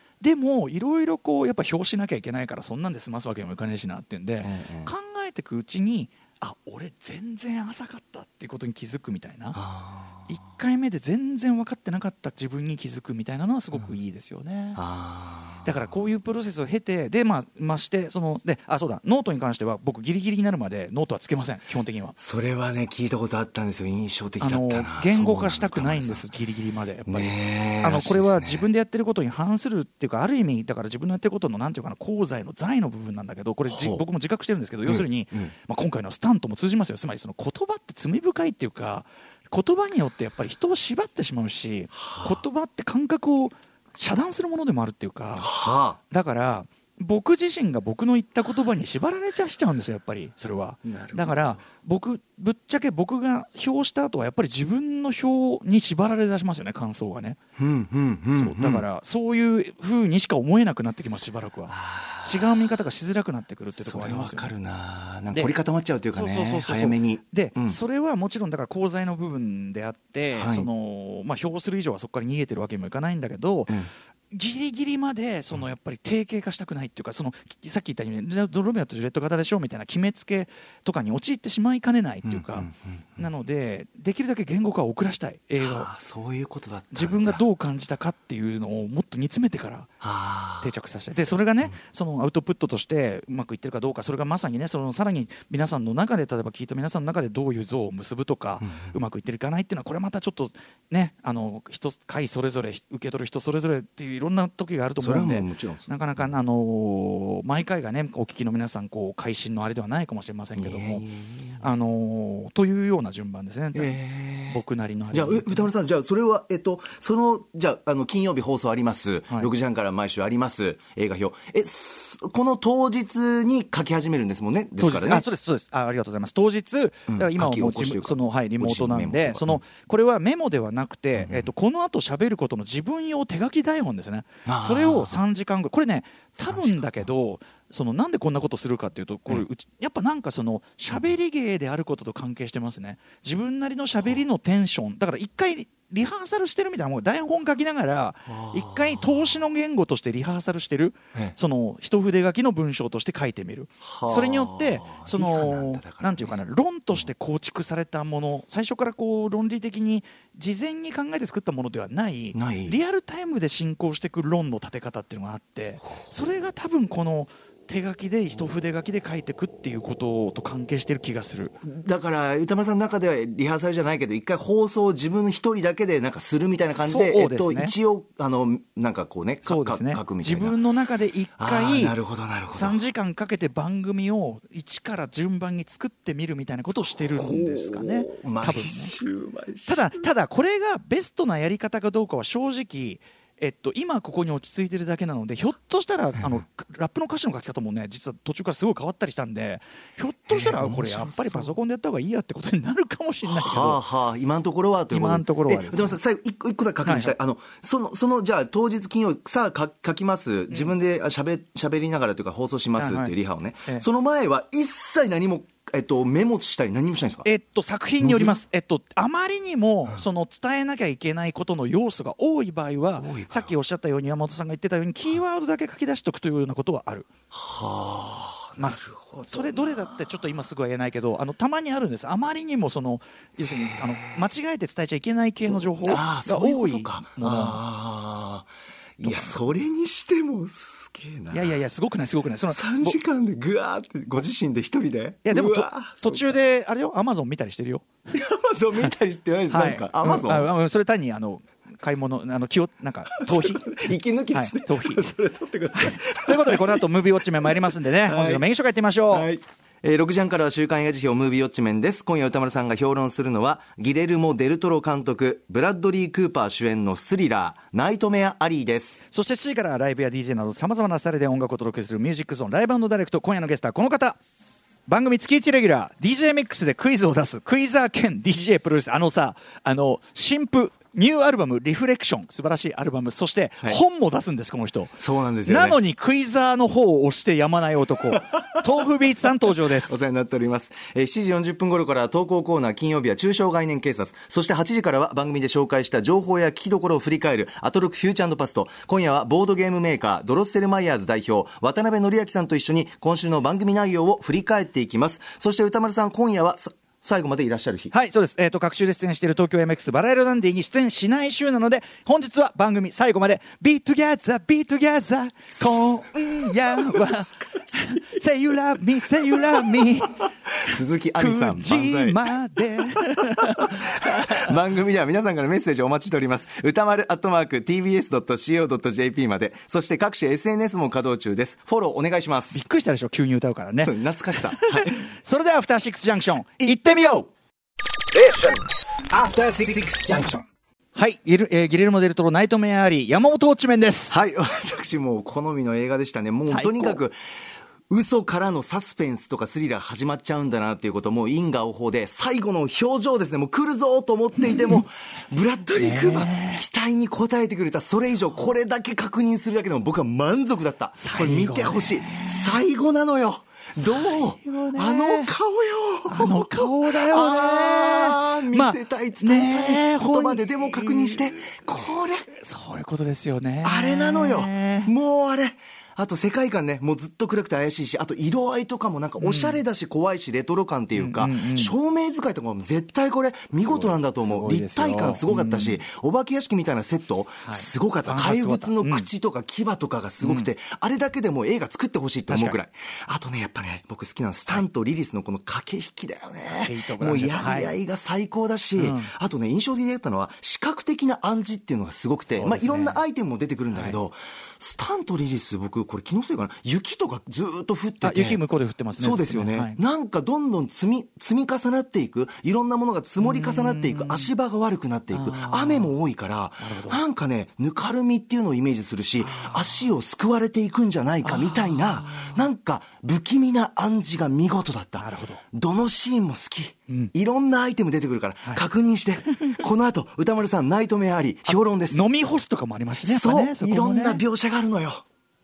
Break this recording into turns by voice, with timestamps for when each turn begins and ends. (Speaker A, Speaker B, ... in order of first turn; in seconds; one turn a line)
Speaker A: 0.2-9.6
Speaker B: 4.4-4.9
Speaker B: 9.5-10.3
Speaker A: 10.3-14.8
Speaker B: 14.8-15.8
Speaker A: 15.6-22.1
Speaker B: 22.2-26.3
Speaker A: 24.4-57.4
Speaker B: 27.1-28.7
Speaker B: 33.7-34.0
Speaker B: 34.9-35.5
Speaker B: 41.9-42.4
Speaker B: 45.4-46.0
Speaker B: 50.8-51.6
Speaker B: 57.6-58.8
Speaker A: 58.3-64.5
Speaker B: 61.7-62.6
Speaker B: 63.7-67.8
Speaker A: 65.3-65.6
Speaker A: 66.1-73.8
Speaker B: 70.3-70.7
Speaker A: 74.3-85.9
Speaker B: 82.2-83.2
Speaker B: 85.6-87.4
Speaker A: 86.9-89.9
Speaker B: 90.0-90.7
Speaker A: 90.6-111.0
Speaker B: 98.6-99.0
Speaker B: 105.0-105.9
Speaker B: 110.6-111.6
Speaker A: 111.6-113.9
Speaker B: 113.7-125.2
Speaker A: 114.5-115.7
Speaker A: 124.8-171.6
Speaker B: 127.1-129.6
Speaker B: 131.2-131.5
Speaker B: 134.4-135.2
Speaker B: 136.4-137.1
Speaker B: 148.3-149.4
Speaker B: 153.8-156.4
Speaker B: 162.3-162.8
Speaker B: 171.6-180.6
Speaker A: 176.7-177.7
Speaker A: 179.4-181.9
Speaker B: 181.4-182.8
Speaker A: 182.5-188.9
Speaker B: 186.9-189.8
Speaker A: 189.7-203.8
Speaker B: 200.3-201.5
Speaker B: 203.3-217.2
Speaker A: 204.9-206.0
Speaker A: 206.8-207.1
Speaker A: 212.8-213.1
Speaker A: 217.2-227.1
Speaker B: 218.0-218.4
Speaker B: 223.0-223.5
Speaker B: 227.3-230.1
Speaker A: 228.6-237.6
Speaker B: 233.4-234.1
Speaker B: 235.5-241.6
Speaker A: 239.0-239.4
Speaker A: 241.3-243.0
Speaker B: 242.5-246.3
Speaker A: 245.2-247.9
Speaker B: 248.1-250.5
Speaker A: 249.5-255.1
Speaker B: 253.2-258.4
Speaker A: 255.7-259.3
Speaker B: 259.1-269.0
Speaker A: 269.1-274.2
Speaker A: 274.9-289.9
Speaker B: 285.0-285.8
Speaker B: 288.1-288.6
Speaker B: 289.5-307.9
Speaker A: 307.9-320.3
Speaker B: 315.5-318.0
Speaker B: 319.2-332.6
Speaker A: 321.2-324.5
Speaker A: 332.5-337.3
Speaker B: 333.8-335.0
Speaker C: 338.1-340.4
Speaker A: 340.9-344.2
Speaker B: 344.1-347.1
Speaker A: 346.5-347.0
Speaker B: 347.9-372.3
Speaker A: 354.4-354.8
Speaker A: 355.8-356.6
Speaker A: 361.0-362.6
Speaker A: 363.7-365.3
Speaker A: 366.1-371.6
Speaker A: 372.3-374.9
Speaker B: 373.6-408.4
Speaker A: 379.2-379.6
Speaker A: 380.9-381.7
Speaker A: 383.7-385.8
Speaker A: 387.4-389.1
Speaker A: 390.2-390.5
Speaker A: 392.3-392.6
Speaker A: 396.5-397.7
Speaker A: 398.8-399.1
Speaker A: 402.3-403.0
Speaker A: 403.7-404.0
Speaker A: 408.0-409.8
Speaker B: 409.0-432.0
Speaker A: 413.2-414.3
Speaker A: 415.1-415.9
Speaker A: 416.6-417.0
Speaker A: 419.2-419.8
Speaker A: 421.2-422.5
Speaker A: 425.0-425.4
Speaker A: 429.3-429.6
Speaker A: 431.5-434.2
Speaker B: 433.0-435.0